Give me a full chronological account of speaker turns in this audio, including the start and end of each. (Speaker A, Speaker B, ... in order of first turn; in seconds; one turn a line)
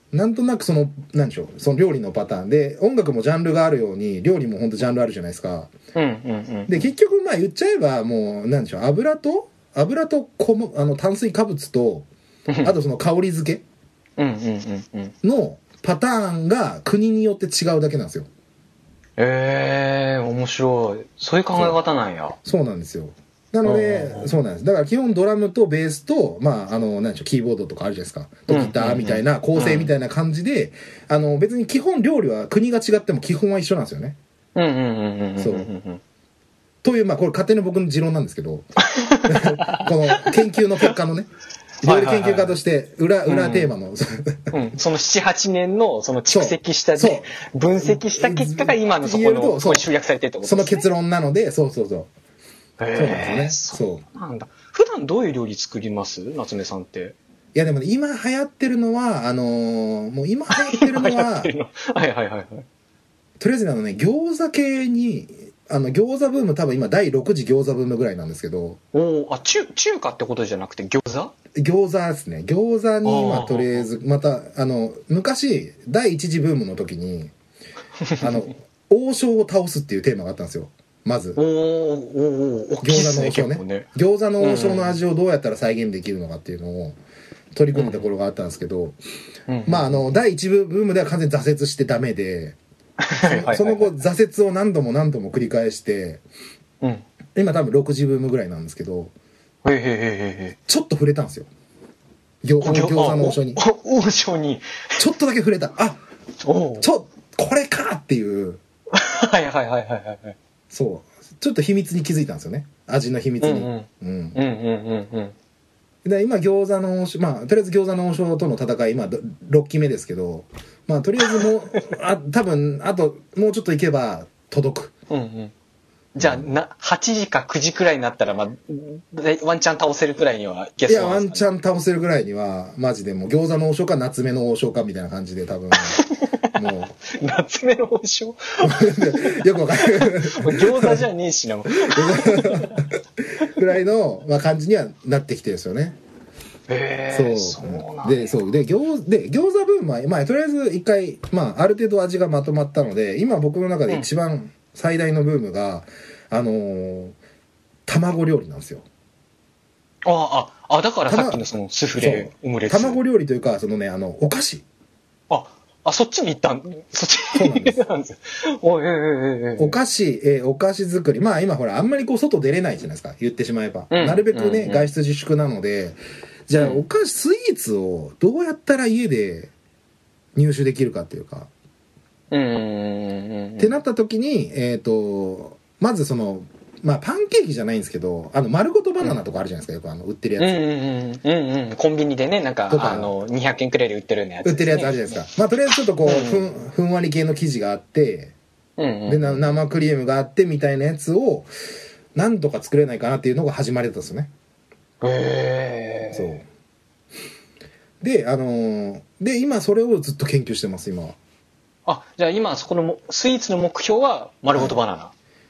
Speaker A: 0.1-5.7
Speaker B: 5.9-6.9
Speaker A: 6.7-12.1
Speaker B: 12.5-12.7
Speaker A: 12.6-13.6
Speaker B: 14.2-15.1
Speaker A: 15.2-18.3
Speaker B: 19.2-22.4
Speaker A: 22.4-34.2
Speaker B: 23.6-24.3
Speaker B: 28.5-29.9
Speaker B: 34.5-36.0
Speaker A: 35.4-35.7
Speaker A: 36.8-38.7
Speaker B: 38.8-40.4
Speaker A: 39.2-41.3
Speaker B: 41.8-42.5
Speaker A: 41.8-44.5
Speaker B: 43.3-43.7
Speaker B: 44.5-50.9
Speaker A: 46.3-49.9
Speaker A: 50.4-52.1
Speaker B: 52.8-57.1
Speaker A: 52.9-54.0
Speaker A: 57.5-61.5
Speaker B: 60.5-62.6
Speaker A: 63.4-68.8
Speaker B: 68.9-71.3
Speaker A: 71.5-77.3
Speaker B: 73.0-73.9
Speaker B: 78.0-78.3
Speaker A: 78.2-81.4
Speaker B: 81.3-83.9
Speaker A: 82.8-87.0
Speaker B: 84.4-85.0
Speaker A: 87.5-89.0
Speaker B: 87.7-88.0
Speaker B: 89.5-90.0
Speaker A: 89.7-92.6
Speaker B: 93.0-93.9
Speaker A: 93.2-96.2
Speaker A: 97.3-99.1
Speaker B: 99.6-100.6
Speaker A: 100.7-101.5
Speaker A: 102.4-103.6
Speaker B: 102.6-105.0
Speaker A: 105.0-106.0
Speaker B: 106.4-106.9
Speaker A: 106.8-108.6
Speaker B: 108.9-110.3
Speaker A: 110.7-114.4
Speaker B: 113.4-115.3
Speaker A: 116.0-124.9
Speaker B: 125.1-125.5
Speaker B: 126.2-131.4
Speaker A: 126.2-126.5
Speaker A: 130.9-136.0
Speaker B: 135.7-142.8
Speaker A: 136.5-136.9
Speaker A: 138.6-141.0
Speaker A: 141.7-146.0
Speaker B: 146.7-148.4
Speaker A: 147.1-157.2
Speaker A: 157.9-158.8
Speaker B: 160.0-163.0
Speaker A: 161.1-161.4
Speaker A: 162.0-164.6
Speaker B: 165.3-169.8
Speaker A: 167.3-167.8
Speaker A: 169.6-179.5
Speaker B: 173.9-174.9
Speaker B: 176.6-176.8
Speaker A: 180.3-181.5
Speaker B: 182.3-183.8
Speaker A: 183.6-190.6
Speaker B: 190.4-195.0
Speaker A: 192.7-193.1
Speaker A: 194.4-198.3
Speaker B: 196.0-196.4
Speaker B: 198.8-199.4
Speaker A: 199.1-201.5
Speaker A: 202.1-204.3
Speaker B: 205.0-206.3
Speaker A: 206.1-206.4
Speaker A: 208.0-211.2
Speaker B: 211.8-215.1